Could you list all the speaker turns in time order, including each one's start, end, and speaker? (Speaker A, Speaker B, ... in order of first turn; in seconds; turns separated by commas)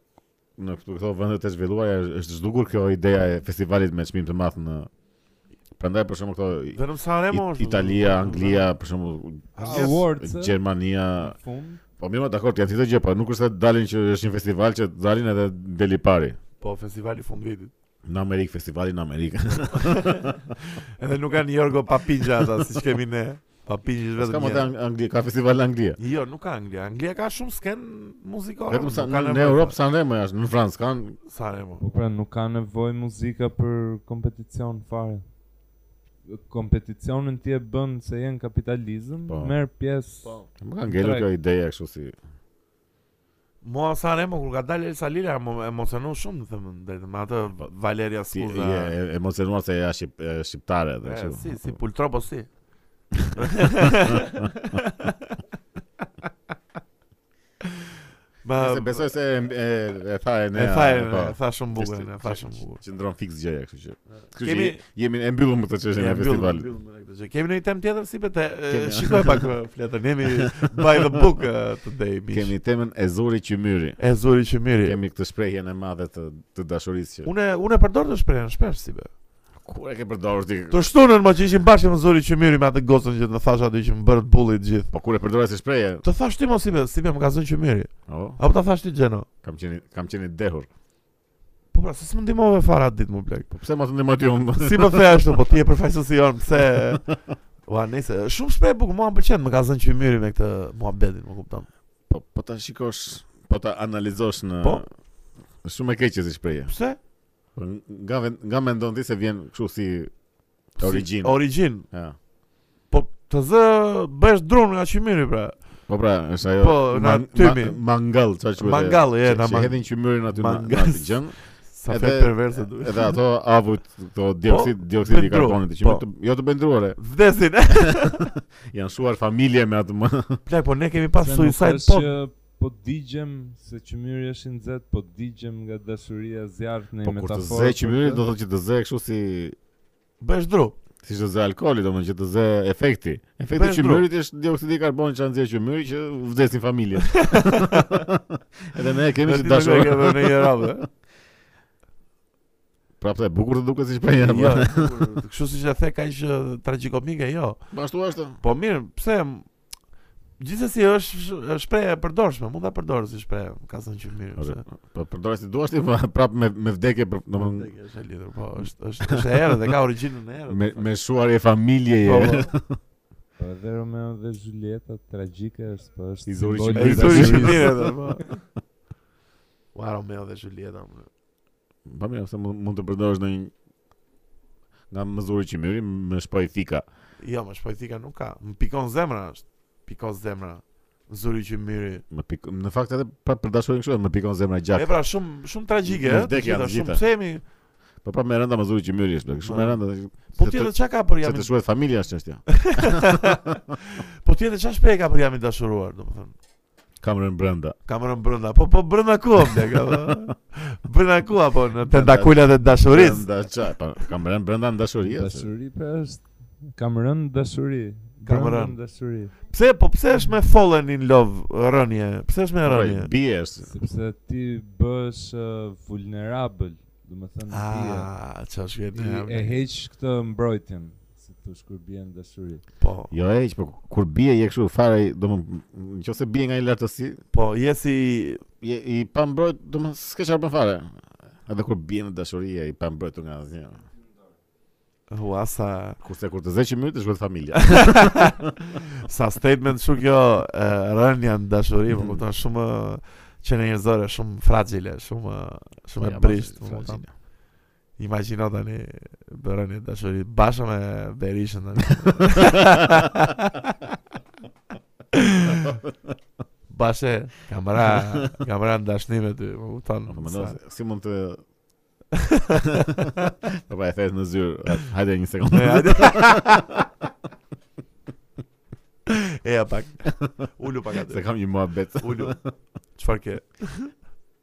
Speaker A: 0.6-4.9, Speaker A: 5.8-6.8, Speaker B: 6.8-8.7, Speaker A: 7.3-11.4, Speaker B: 9.6-10.0, Speaker C: 9.6-10.6, Speaker C: 11.2-11.8, Speaker A: 12.0-16.4, Speaker B: 16.6-17.7, Speaker A: 18.1-20.5, Speaker B: 19.7-24.7, Speaker A: 24.2-26.0, Speaker B: 26.0-29.8, Speaker A: 28.7-31.2, Speaker B: 31.3-31.8, Speaker C: 31.8-35.2, Speaker C: 36.3-41.3, Speaker A: 39.3-39.5, Speaker A: 40.6-42.1, Speaker B: 43.6-49.0, Speaker A: 48.3-51.8, Speaker B: 51.0-52.5, Speaker A: 53.2-54.2, Speaker B: 53.3-55.4, Speaker B: 57.6-57.9, Speaker B: 58.4-59.1, Speaker A: 58.6-66.7, Speaker B: 60.5-62.8, Speaker B: 64.4-64.8, Speaker B: 65.9-72.5, Speaker A: 68.7-69.5, Speaker A: 70.3-71.2, Speaker A: 72.3-74.0, Speaker B: 74.0-75.0, Speaker A: 74.8-77.3, Speaker B: 77.2-79.1, Speaker A: 79.6-80.8, Speaker B: 80.7-84.9, Speaker A: 84.9-86.0, Speaker B: 86.0-89.3, Speaker A: 88.1-88.4, Speaker A: 89.4-90.7, Speaker B: 91.7-93.5, Speaker A: 93.5-95.2, Speaker B: 94.6-97.1, Speaker B: 97.7-101.7, Speaker A: 102.1-104.9, Speaker A: 105.6-106.7, Speaker B: 106.7-107.0, Speaker A: 107.6-110.1, Speaker A: 110.8-112.2, Speaker B: 110.8-111.9, Speaker B: 112.9-115.8, Speaker A: 115.9-127.0, Speaker B: 116.6-117.8, Speaker B: 118.6-123.2, Speaker B: 124.5-126.1, Speaker B: 127.0-128.3, Speaker A: 127.8-130.4, Speaker B: 130.5-132.1, Speaker C: 131.2-138.2, Speaker A: 137.0-139.6, Speaker B: 140.2-140.8, Speaker A: 141.0-150.8, Speaker B: 143.5-144.1, Speaker B: 147.1-148.1, Speaker B: 149.2-150.9, Speaker A: 153.0-155.1, Speaker B: 154.1-157.7, Speaker A: 157.7-158.4, Speaker B: 158.4-159.5, Speaker B: 160.4-164.6, Speaker A: 164.4-167.7, Speaker B: 167.3-170.9, Speaker A: 168.6-169.5, Speaker A: 170.5-172.8, Speaker B: 172.0-172.5, Speaker C: 173.4-177.9, Speaker A: 176.3-178.0, Speaker B: 176.8-178.2, Speaker B: 179.7-181.1, Speaker A: 181.9-183.5, Speaker A: 184.9-186.9, Speaker B: 187.2-192.0, Speaker A: 192.1-194.9, Speaker B: 194.8-197.4, Speaker A: 195.8-197.0, Speaker A: 198.0-203.5, Speaker B: 199.4-201.5, Speaker B: 202.5-206.3, Speaker A: 207.0-207.8, Speaker B: 207.9-213.5, Speaker A: 209.9-210.2, Speaker A: 211.9-215.5, Speaker C: 215.0-219.3, Speaker B: 218.3-218.8, Speaker B: 219.5-223.1, Speaker A: 222.6-223.7, Speaker C: 223.6-228.1, Speaker B: 227.5-229.6, Speaker C: 228.9-232.7, Speaker B: 232.8-233.1, Speaker A: 233.1-237.2, Speaker B: 237.3-238.4, Speaker A: 238.6-243.8, Speaker B: 245.1-246.0, Speaker A: 246.0-248.5, Speaker B: 247.6-257.4, Speaker A: 251.9-252.2, Speaker A: 256.0-257.1, Speaker B: 258.0-263.8, Speaker B: 265.1-265.7, Speaker B: 266.7-270.6, Speaker A: 267.9-268.2, Speaker A: 270.1-271.4, Speaker B: 272.2-273.1, Speaker A: 273.1-276.8, Speaker B: 275.5-276.8, Speaker B: 279.1-281.3, Speaker A: 281.1-282.4, Speaker B: 282.0-282.4, Speaker B: 283.0-283.9